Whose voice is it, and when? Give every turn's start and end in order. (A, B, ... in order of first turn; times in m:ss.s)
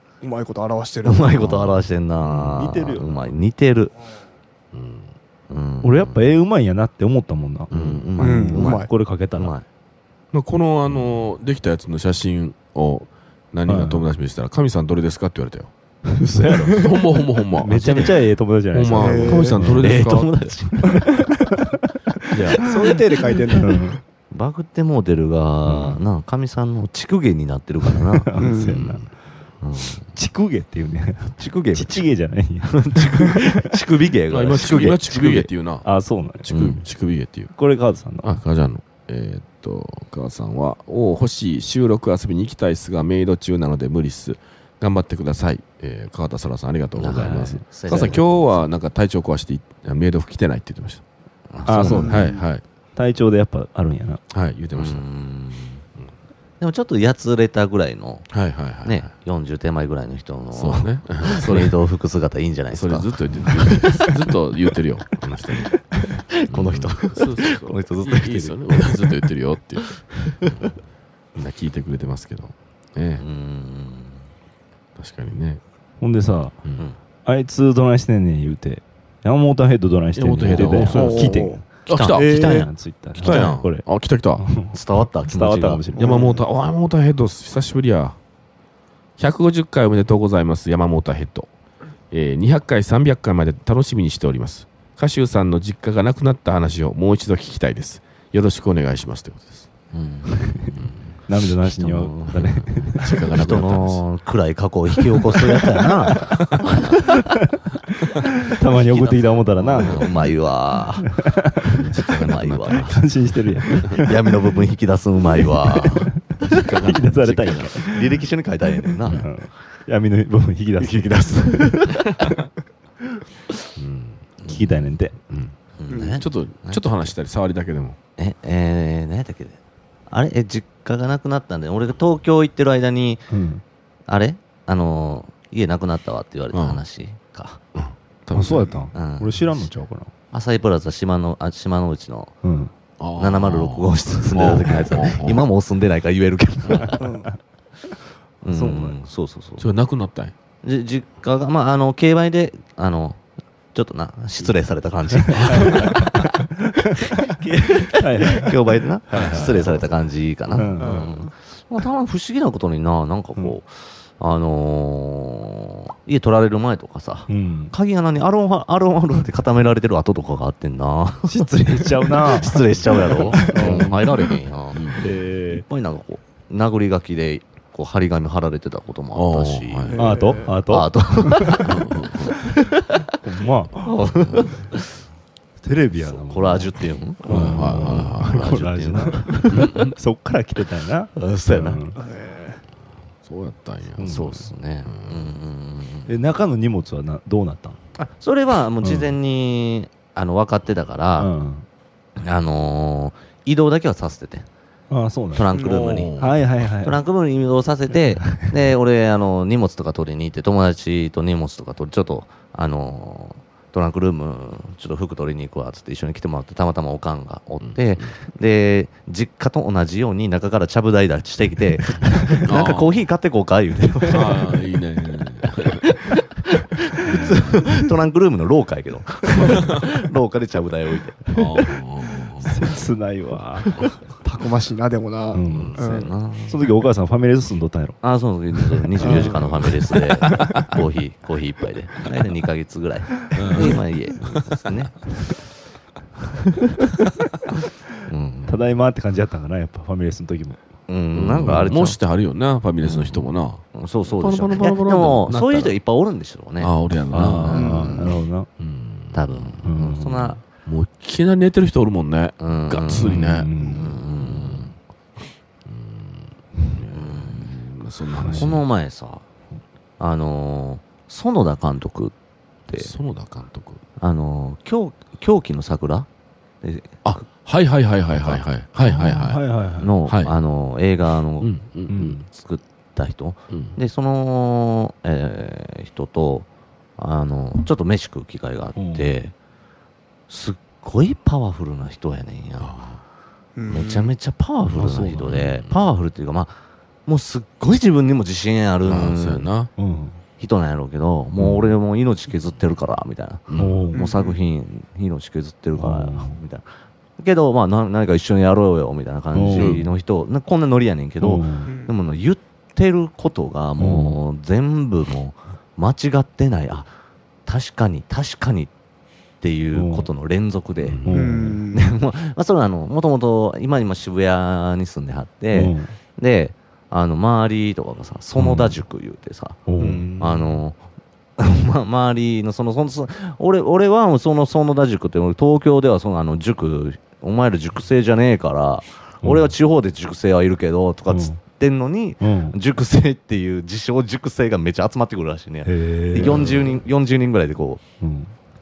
0:00.2-0:01.6 A
0:01.0-0:03.9 B
0:02.2-0:02.6 C
0:02.6-0:03.1 D
0:04.7-0:05.1 C
0:05.5-0:06.3 B
0:05.8-0:09.5 D
0:07.7-0:08.1 C
0:07.7-0:08.8 B
0:08.2-0:08.9 A
0:09.4-0:09.6 B
0:10.3-0:15.7 C
0:13.7-0:14.0 D
0:16.1-0:16.8 D
0:16.6-0:17.8 C
0:17.6-0:19.9 D
0:17.6-0:18.2 B
0:18.7-0:20.3 C
0:19.0-0:19.6 A
0:19.7-0:21.1 B
0:20.9-0:21.3 A
0:22.3-0:22.7 C
0:22.6-0:24.0 A
0:23.5-0:24.0 D
0:24.3-0:28.4 B
0:25.6-0:26.0 D
0:28.0-0:29.0 D
0:28.4-0:28.8 A
0:28.6-0:29.1 C
0:29.6-0:30.1 B
0:30.1-0:33.4 D
0:31.4-0:32.1 B
0:32.7-0:35.5 B
0:34.3-0:35.9 C
0:35.8-0:36.8 D
0:36.4-0:37.5 C
0:37.6-0:38.4 D
0:38.2-0:51.0 C
0:47.0-0:48.6 B
0:47.1-0:47.6 D
0:51.5-0:52.3 B
0:51.6-0:52.2 D
0:51.8-0:52.4 A
0:51.8-0:52.6 C
0:53.0-0:54.2 D
0:54.3-0:55.0 C
0:54.7-0:55.8 B
0:56.6-1:04.2 B
0:58.3-0:59.1 C
1:00.5-1:01.8 C
1:02.7-1:05.8 C
1:05.5-1:09.3 B
1:06.5-1:10.7 C
1:09.8-1:10.7 B
1:11.3-1:13.2 C
1:13.2-1:14.2 B
1:15.0-1:15.6 C
1:16.0-1:16.6 D
1:17.2-1:23.8 D
1:20.1-1:22.6 C
1:20.9-1:22.7 A
1:21.8-1:23.6 B
1:23.2-1:24.5 C
1:24.4-1:26.3 D
1:24.7-1:25.9 B
1:25.9-1:26.4 A
1:26.0-1:28.2 C
1:29.2-1:31.5 C
1:32.1-1:39.7 C
1:39.9-1:40.9 B
1:40.4-1:40.7 D
1:41.3-1:43.1 D
1:41.7-1:42.6 B
1:42.4-1:44.0 C
1:43.2-1:47.0 B
1:45.8-1:46.4 D
1:46.9-1:50.1 D
1:48.5-1:51.2 B
1:49.8-1:50.1 C
1:51.0-1:51.8 D
1:51.7-1:52.9 C
1:51.7-1:53.0 B
1:52.7-1:54.2 D
1:53.7-1:56.7 B
1:55.4-1:58.1 D
1:56.4-1:57.7 C
1:57.7-1:59.2 B
1:59.0-2:02.3 D
2:00.8-2:02.2 B
2:03.8-2:04.3 C
2:04.4-2:04.7 B
2:04.5-2:05.1 D
2:05.3-2:05.5 C
2:05.8-2:06.9 B
2:05.9-2:06.2 A
2:06.1-2:08.0 C
2:08.2-2:09.6 B
2:10.1-2:13.3 B
2:13.3-2:13.6 D
2:14.1-2:17.6 B
2:16.5-2:16.8 C
2:17.7-2:18.8 C
2:18.3-2:20.1 D
2:18.9-2:19.6 B
2:20.3-2:22.3 B
2:22.4-2:22.7 D
2:23.0-2:25.4 C
2:23.2-2:27.1 B
2:26.7-2:26.9 C
2:27.0-2:27.3 A
2:28.4-2:29.7 B
2:28.4-2:29.0 D
2:29.6-2:30.3 C
2:30.6-2:33.2 B
2:33.7-2:36.3 B
2:35.3-2:36.0 C
2:35.4-2:37.2 D
2:37.1-3:03.1 B
2:37.8-2:38.6 D
2:39.1-2:39.7 D
2:39.1-2:40.0 C
2:40.5-2:41.0 D
2:40.8-2:41.1 A
2:47.3-2:47.7 D
2:51.3-2:54.1 D
2:53.5-2:55.1 C
2:55.0-2:55.6 D
2:59.1-3:00.0 C
2:59.9-3:00.6 A
3:00.0-3:01.7 D
3:01.6-3:02.4 C
3:03.2-3:04.5 D
3:03.8-3:04.9 B
3:05.6-3:12.0 D
3:06.0-3:09.8 B
3:07.3-3:08.5 C
3:09.5-3:09.9 C
3:11.2-3:11.8 B
3:12.0-3:12.6 A
3:13.2-3:14.2 C
3:14.0-3:14.5 D
3:14.0-3:16.1 B
3:14.8-3:15.3 C
3:16.1-3:17.8 D
3:18.0-3:21.3 B
3:18.8-3:19.1 D
3:21.2-3:21.6 D
3:22.2-3:24.5 B
3:24.9-3:25.5 D
3:25.3-3:44.6 B
3:25.5-3:26.1 A
3:25.6-3:26.4 C
3:26.2-3:27.0 D
3:37.6-3:38.1 C
3:42.4-3:43.0 C
3:44.1-3:45.8 C
3:45.6-3:51.6 B
3:47.0-3:47.6 C
3:51.3-3:52.6 C
3:52.4-3:53.8 D
3:54.2-3:56.1 A
3:55.3-3:55.8 D
3:55.5-3:55.8 C
3:55.7-3:56.6 B
3:56.5-3:58.0 D
3:58.0-4:05.2 B
3:59.0-3:59.3 D
3:59.0-3:59.3 A
3:59.1-4:00.7 C
4:03.3-4:03.8 C
4:08.0-4:08.6 B
4:08.5-4:10.6 D
4:10.9-4:12.0 B
4:11.1-4:15.8 C
4:12.8-4:18.2 B
4:16.6-4:18.0 C
4:17.1-4:18.5 D
4:17.5-4:18.0 A
4:18.6-4:19.6 C
4:19.1-4:20.4 B
4:19.6-4:20.4 D
4:20.6-4:24.7 C
4:22.4-4:24.7 B
4:23.0-4:23.9 D
4:25.6-4:28.6 C
4:26.9-4:27.5 B
4:28.2-4:28.5 D
4:28.3-4:29.2 B
4:30.0-4:32.1 B
4:32.7-4:32.9 B
4:32.7-4:33.8 C
4:34.0-4:36.1 B
4:36.6-4:37.3 B
4:37.0-4:39.4 C
4:38.1-4:38.4 B
4:38.8-4:39.9 D
4:39.8-4:41.6 B
4:40.0-4:40.3 C
4:41.4-4:42.2 C
4:41.9-4:42.2 D
4:42.2-4:49.3 B
4:43.5-4:43.8 C
4:48.8-4:49.1 D
4:50.3-4:52.7 B
4:52.6-4:53.0 C
4:53.6-4:54.1 A
4:53.7-4:59.5 B
4:54.7-4:55.3 D
4:55.2-4:55.8 C
4:58.8-4:59.7 C
4:59.8-5:00.2 D
5:00.4-5:16.9 B
5:03.5-5:03.8 C
5:03.6-5:04.0 D
5:03.9-5:04.4 A
5:05.8-5:06.4 D
5:09.3-5:09.8 D
5:09.5-5:09.8 C
5:11.2-5:11.7 D
5:11.6-5:11.9 A
5:13.8-5:14.2 D
5:17.4-5:18.7 B
5:19.4-5:21.0 B
5:19.7-5:20.1 D
5:20.8-5:21.4 C
5:21.0-5:21.6 D
5:21.1-5:21.9 A
5:21.7-5:30.8 B
5:25.5-5:25.9 D
5:28.4-5:28.8 D
5:29.7-5:30.5 D
5:31.4-5:47.8 B
5:39.2-5:39.5 D
5:41.1-5:41.4 D
5:42.2-5:42.6 D
5:45.6-5:46.5 D
5:46.1-5:46.8 C
5:48.0-5:48.3 D